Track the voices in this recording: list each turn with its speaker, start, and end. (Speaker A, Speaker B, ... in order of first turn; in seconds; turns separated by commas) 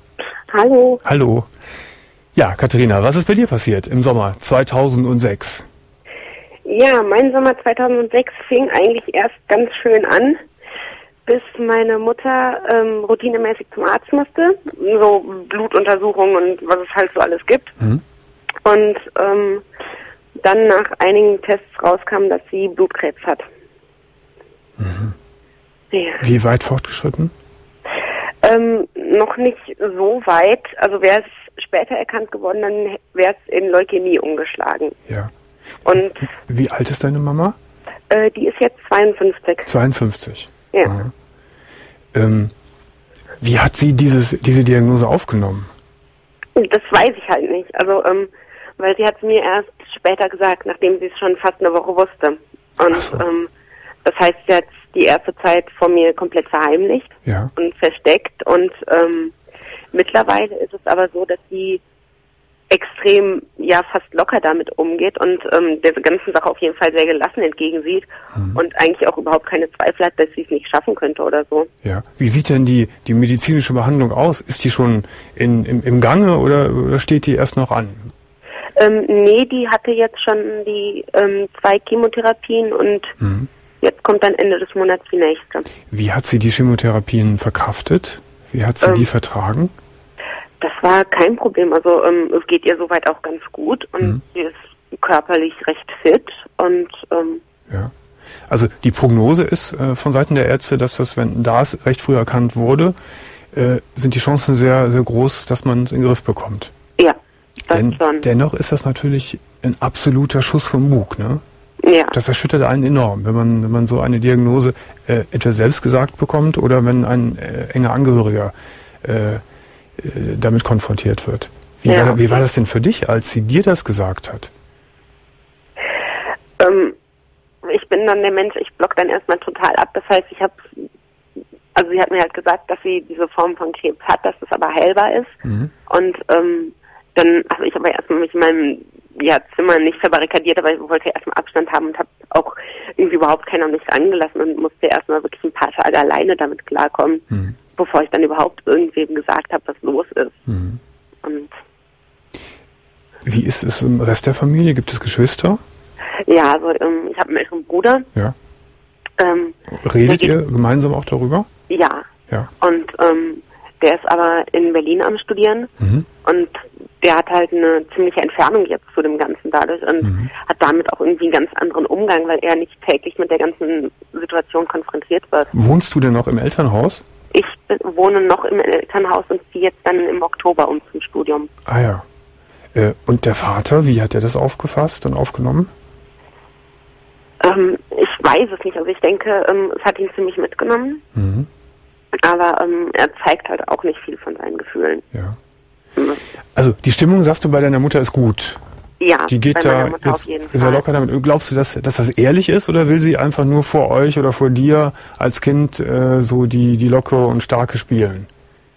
Speaker A: 0.5-1.0, Speaker B: 1.0-1.5, Speaker B: 2.4-5.7, Speaker A: 6.6-10.4, Speaker A: 11.2-17.8, Speaker A: 18.6-19.6, Speaker A: 20.4-23.5, Speaker B: 24.8-25.1, Speaker A: 25.9-26.2, Speaker B: 26.2-27.3, Speaker A: 28.4-35.0, Speaker A: 35.8-36.3, Speaker B: 35.9-37.5, Speaker A: 38.1-39.7, Speaker B: 39.6-41.1, Speaker B: 42.1-42.5, Speaker B: 43.4-45.7, Speaker A: 46.5-53.5, Speaker B: 52.9-53.2, Speaker A: 54.0-59.3, Speaker B: 57.2-57.5, Speaker A: 59.9-61.8, Speaker A: 62.7-71.7, Speaker B: 71.8-78.1, Speaker A: 78.8-83.2, Speaker B: 83.2-83.5, Speaker A: 83.8-85.7, Speaker B: 85.9-89.7, Speaker A: 88.8-89.1, Speaker A: 90.6-97.4, Speaker B: 98.5-103.0, Speaker B: 103.5-106.7, Speaker A: 107.7-108.3, Speaker B: 107.7-111.4, Speaker A: 111.8-112.2, Speaker B: 112.1-119.4, Speaker B: 120.0-124.5, Speaker A: 121.8-122.4, Speaker A: 126.6-127.0, Speaker A: 127.6-130.8, Speaker A: 131.7-147.2, Speaker B: 135.4-135.7, Speaker A: 147.8-150.4, Speaker B: 150.5-150.8, Speaker A: 151.2-151.5, Speaker B: 153.2-155.6, Speaker A: 156.3-158.1, Speaker A: 159.2-160.3, Speaker B: 159.7-161.5, Speaker A: 161.7-162.1, Speaker A: 162.6-165.7, Speaker A: 166.2-175.5, Speaker B: 170.0-170.3, Speaker B: 175.5-177.0, Speaker A: 177.3-181.5, Speaker B: 181.7-182.0, Speaker B: 182.7-185.7, Speaker A: 187.4-191.0, Speaker B: 191.2-191.5, Speaker A: 192.2-195.1, Speaker A: 196.0-196.2, Speaker B: 196.5-198.6, Speaker A: 199.0-200.8, Speaker B: 199.3-208.3